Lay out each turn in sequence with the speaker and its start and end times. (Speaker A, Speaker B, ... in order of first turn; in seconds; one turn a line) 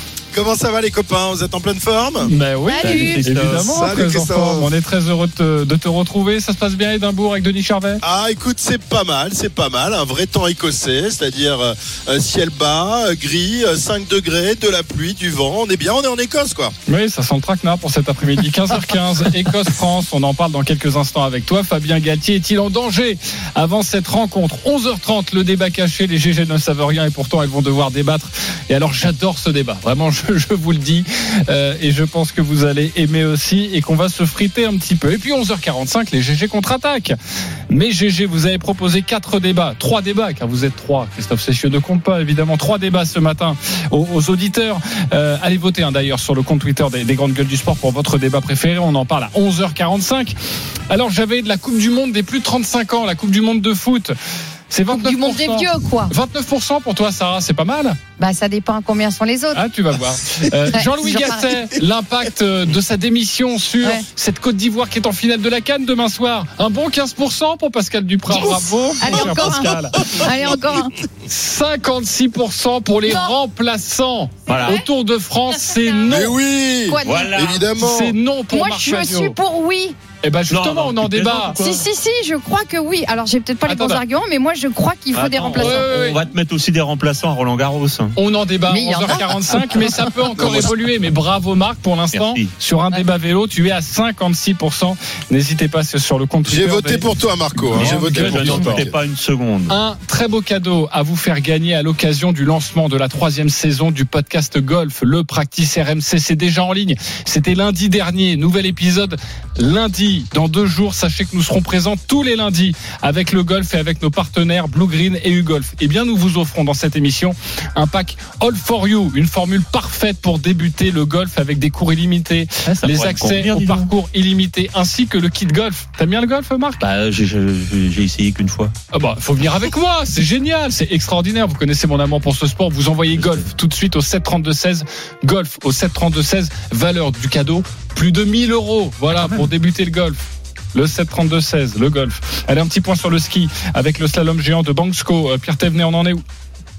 Speaker A: 0.3-2.3
Speaker B: 2.2-8.0
Speaker C: 2.6-3.2
Speaker D: 2.8-3.9
Speaker A: 3.7-4.7
Speaker A: 8.0-16.7
Speaker B: 16.9-37.1
Speaker B: 37.7-50.3
Speaker B: 50.9-54.1
Speaker B: 54.7-58.0
Speaker C: 54.9-56.1
Speaker C: 58.2-59.6
Speaker B: 59.5-70.5
Speaker C: 60.7-61.5
Speaker C: 68.3-70.9
Speaker B: 71.3-76.3
Speaker C: 73.1-73.3
Speaker D: 74.5-74.8
Speaker C: 75.5-76.3
Speaker A: 76.1-78.1
Speaker C: 76.9-77.5
Speaker D: 77.0-77.7
Speaker B: 77.7-79.3
Speaker C: 78.5-80.0
Speaker B: 80.2-81.7
Speaker D: 80.5-81.8
Speaker C: 81.6-85.9
Speaker B: 83.7-84.0
Speaker D: 85.1-88.1
Speaker B: 85.6-86.2
Speaker B: 88.2-97.1
Speaker C: 88.7-90.1
Speaker D: 92.1-92.5
Speaker A: 96.4-99.0
Speaker B: 97.6-98.8
Speaker D: 97.7-99.7
Speaker B: 99.7-126.8
Speaker D: 122.7-123.9
Speaker D: 126.8-128.7
Speaker B: 128.9-140.2
Speaker D: 133.1-133.4
Speaker D: 139.1-139.5
Speaker B: 140.7-146.2